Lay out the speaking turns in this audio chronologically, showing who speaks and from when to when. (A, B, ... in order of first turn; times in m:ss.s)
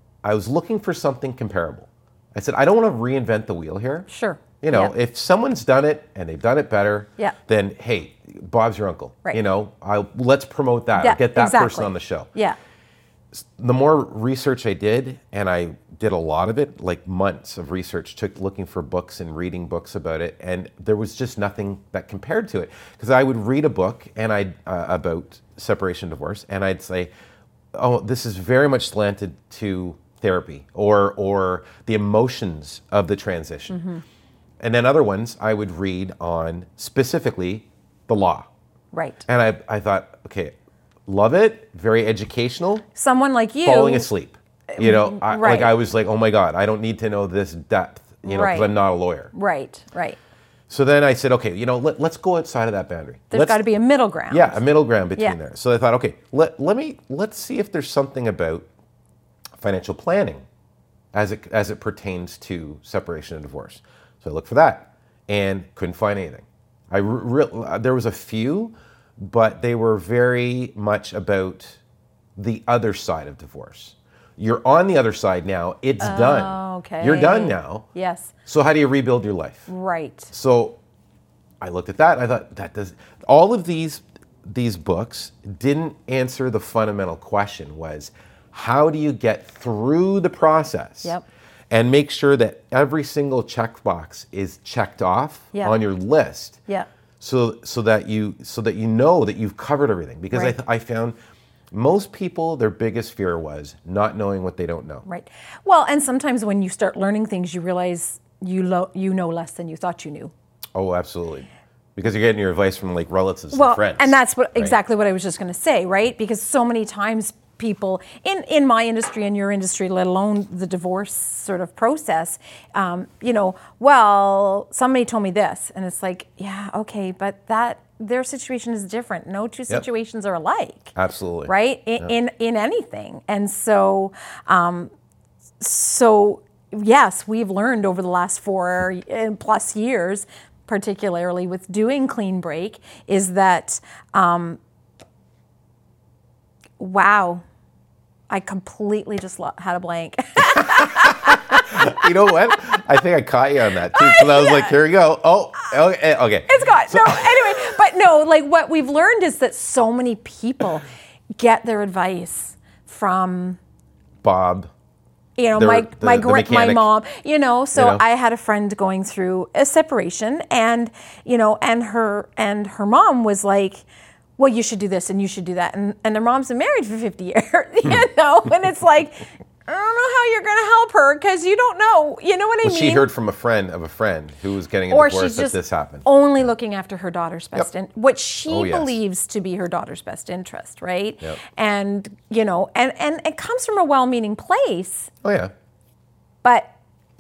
0:00.2-0:04.1 A
0:04.1-0:04.9 B
0:04.6-0:12.3 A
0:11.0-0:12.6 B
0:13.3-0:27.1 A
0:27.7-0:33.8 A
0:33.7-0:34.0 B
0:34.6-0:38.5 A
0:38.9-0:39.2 B
0:39.3-0:40.5 A
0:41.1-0:42.8 A
0:43.0-0:44.1 B
0:43.6-0:49.3 A
0:44.7-0:45.7 B
0:48.2-0:48.7 B
0:49.3-0:50.2 B
0:50.7-0:53.6 A
0:53.3-0:54.6 B
0:54.3-0:58.7 A
0:59.6-1:00.4 A
1:01.1-1:11.8 A
1:12.4-1:17.9 A
1:16.0-1:18.3 B
1:18.5-1:19.7 A
1:19.7-1:20.3 B
1:20.3-1:20.8 A
1:21.6-1:31.2 A
1:31.7-1:36.6 A
1:37.2-1:41.2 A
1:41.7-1:45.0 A
1:45.0-1:50.3 B
1:50.7-1:54.8 A
1:53.5-2:11.0 B
2:11.0-2:12.1 A
2:11.5-2:14.9 B
2:15.6-2:24.6 B
2:26.8-2:27.4 B
2:28.3-2:32.1 B
2:30.6-2:37.7 A
2:33.9-2:34.8 B
2:36.5-2:43.6 B
2:44.2-2:44.7 A
2:45.4-2:53.8 B
2:45.6-2:46.9 A
2:47.8-2:48.0 A
2:54.4-3:03.1 B
3:02.6-3:06.1 A
3:04.9-3:15.1 B
3:08.5-3:09.0 A
3:15.2-3:15.5 A
3:16.4-3:16.7 B